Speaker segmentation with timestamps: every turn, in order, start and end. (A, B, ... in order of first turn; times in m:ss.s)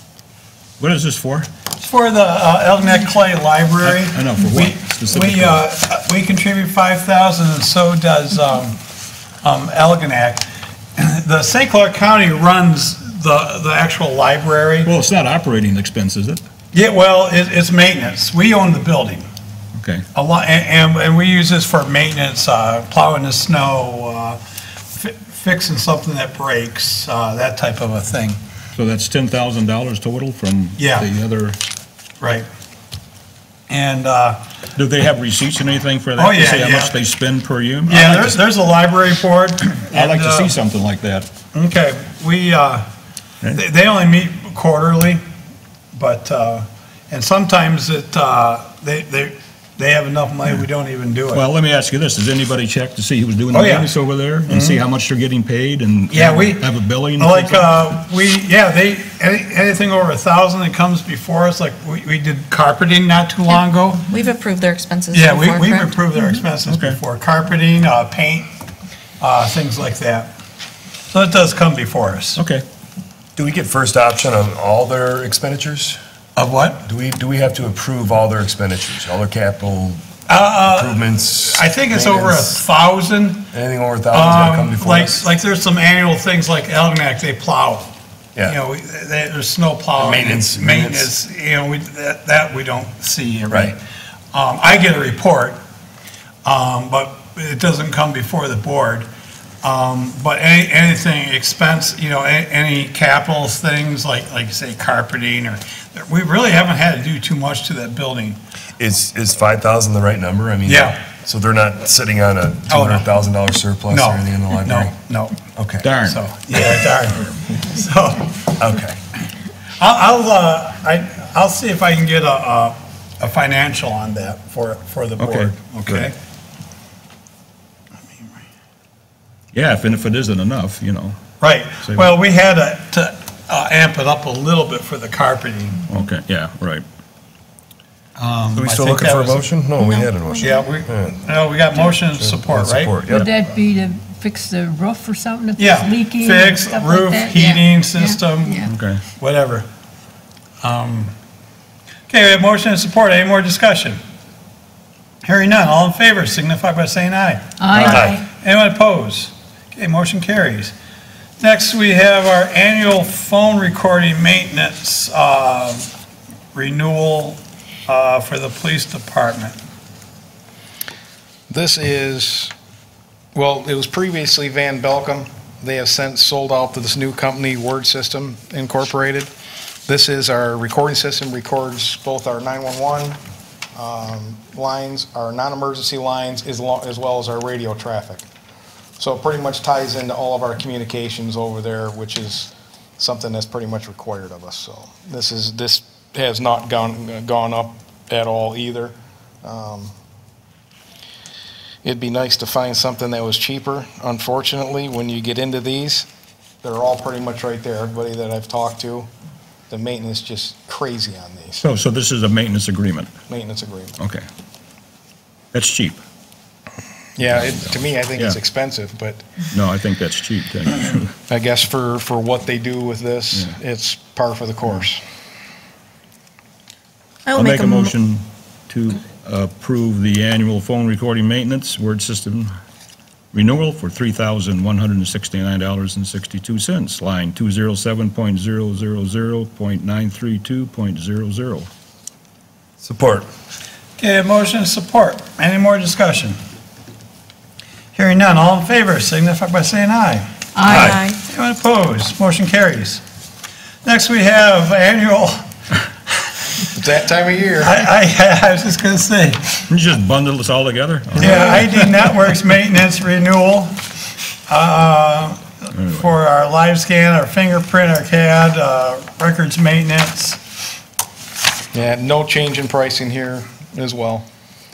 0:00.8-0:01.5 A
0:01.8-0:08.8 B
0:03.8-0:05.6 A
0:09.4-0:14.9 B
0:14.8-0:16.4 A
0:16.7-0:19.3 B
0:19.8-0:20.0 A
0:20.1-0:24.4 B
0:24.9-0:28.4 B
0:28.7-0:31.6 A
0:30.8-0:31.1 B
0:32.2-0:32.4 B
0:33.7-0:34.4 B
0:34.8-0:38.4 A
0:36.2-0:37.0 B
0:37.9-0:40.5 B
0:39.9-0:41.3 A
0:41.5-0:42.8 B
0:43.5-0:45.2 B
0:45.9-0:51.4 B
0:51.3-0:57.7 A
0:53.5-0:53.9 B
0:54.5-0:54.8 B
0:56.1-0:56.7 B
0:57.2-1:04.1 B
1:04.1-1:05.9 C
1:05.1-1:08.5 B
1:06.6-1:07.0 A
1:09.2-1:10.3 B
1:11.1-1:12.4 B
1:12.4-1:12.6 A
1:13.3-1:16.0 D
1:16.4-1:16.8 B
1:16.8-1:20.0 D
1:20.3-1:23.5 B
1:20.7-1:22.6 D
1:23.5-1:25.3 D
1:24.1-1:27.9 B
1:28.4-1:33.8 B
1:30.0-1:31.1 D
1:33.5-1:33.8 D
1:34.3-1:35.6 B
1:36.4-1:39.1 B
1:39.6-1:48.4 B
1:48.8-1:54.9 D
1:50.6-1:51.0 B
1:52.7-1:53.1 B
1:53.9-1:55.4 B
1:55.6-1:55.8 D
1:55.8-1:56.2 A
1:56.0-1:58.3 B
1:58.6-1:59.0 D
1:59.8-2:06.1 B
2:05.2-2:06.1 A
2:09.5-2:11.2 A
2:11.4-2:15.8 B
2:11.8-2:12.1 A
2:15.9-2:16.8 A
2:18.2-2:19.5 B
2:18.5-2:21.2 D
2:19.8-2:20.7 C
2:20.4-2:22.9 B
2:21.7-2:23.3 D
2:23.1-2:28.2 E
2:25.6-2:29.7 B
2:28.7-2:29.0 A
2:30.6-2:31.1 B
2:32.1-2:34.0 B
2:35.2-2:40.7 B
2:37.6-2:38.2 E
2:37.8-2:38.2 D
2:41.4-2:45.9 B
2:46.5-2:49.6 B
2:51.5-2:52.5 F
2:53.3-2:59.3 F
2:59.9-3:03.2 F
3:03.7-3:08.2 F
3:09.0-3:19.9 F
3:21.8-3:26.1 F
3:26.6-3:29.1 F
3:29.7-3:31.6 F
3:31.6-3:33.1 A
3:33.3-3:34.0 F
3:34.0-3:34.2 A
3:35.5-3:36.0 A
3:37.2-3:39.3 F
3:37.3-3:38.4 A
3:39.5-3:41.1 A
3:41.3-3:45.0 F
3:47.3-3:47.9 C
3:47.3-3:52.5 A
3:53.3-4:01.7 A
4:02.8-4:03.3 D
4:04.0-4:06.4 B
4:07.9-4:13.0 B
4:10.6-4:10.9 E
4:10.7-4:11.0 D
4:10.7-4:11.2 C
4:13.8-4:15.5 B
4:16.7-4:17.8 F
4:17.6-4:19.5 B
4:19.7-4:21.9 A
4:21.2-4:23.7 B
4:24.5-4:30.4 B
4:25.7-4:26.1 A
4:31.7-4:34.2 F